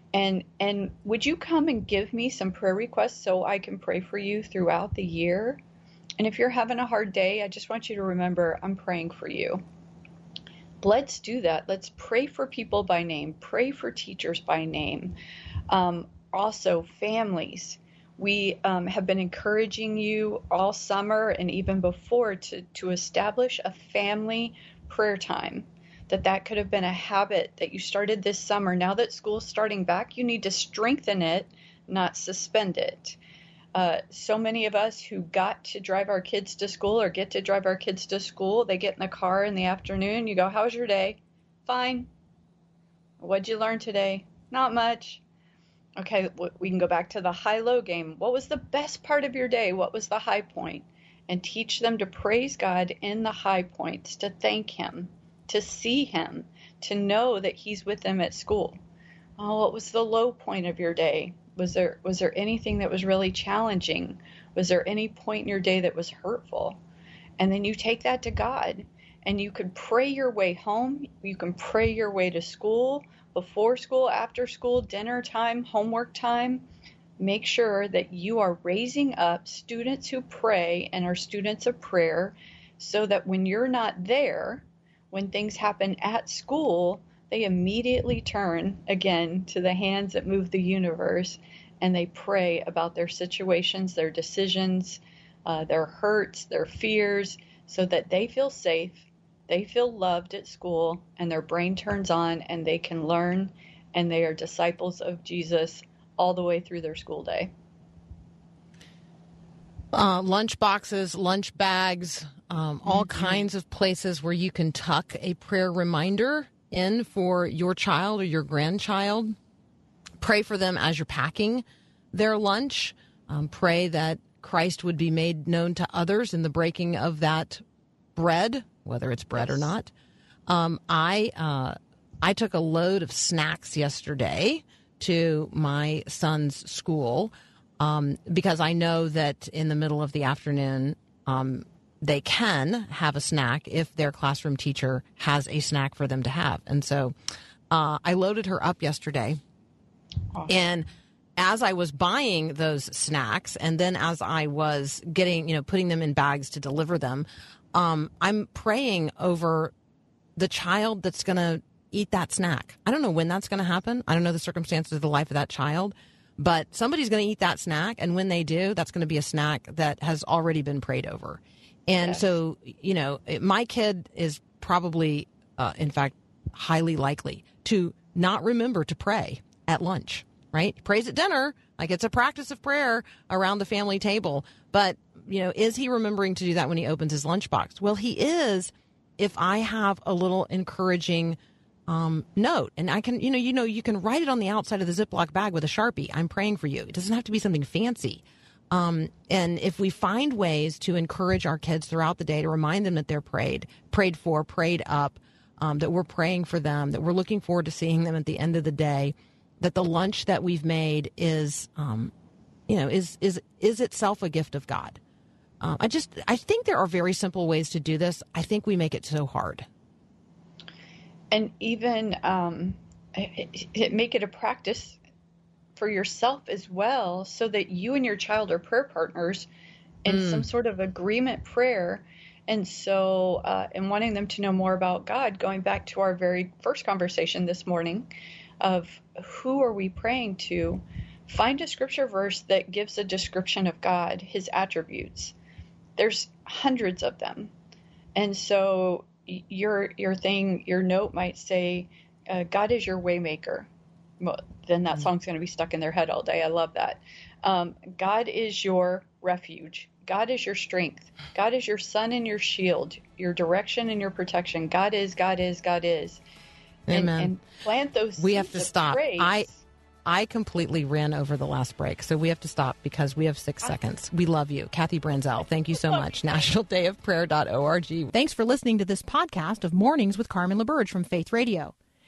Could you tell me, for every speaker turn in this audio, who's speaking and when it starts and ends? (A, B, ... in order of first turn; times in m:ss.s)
0:00.1-0:05.6 A
0:06.2-0:09.6 A
0:10.8-0:15.2 A
0:15.7-0:33.2 A
0:33.7-0:42.1 A
0:43.2-0:45.2 A
0:46.0-0:58.8 A
0:59.4-1:06.8 A
1:07.4-1:16.6 A
1:17.2-1:47.5 A
1:49.9-1:59.3 B
1:53.0-1:53.2 A
2:00.2-2:07.6 B
2:08.2-2:09.9 B
2:09.4-2:09.7 A
2:10.5-2:27.1 B
2:27.7-2:29.4 B
2:30.5-2:30.9 B
2:31.4-2:39.7 B
2:40.4-3:11.4 B
2:52.0-2:52.3 A
3:11.9-3:32.1 B
3:32.7-3:35.0 B
3:35.6-3:39.7 B
3:41.3-3:45.0 A
3:45.8-3:49.5 A
3:50.0-3:58.1 A
3:50.1-3:50.5 B
3:58.6-4:05.3 A
4:06.0-4:07.5 A
4:08.1-4:13.7 A
4:14.2-4:26.2 A
4:26.9-4:27.3 B
4:26.9-4:29.6 A
4:28.2-4:29.5 B
4:30.0-4:38.1 B
4:38.1-4:41.7 C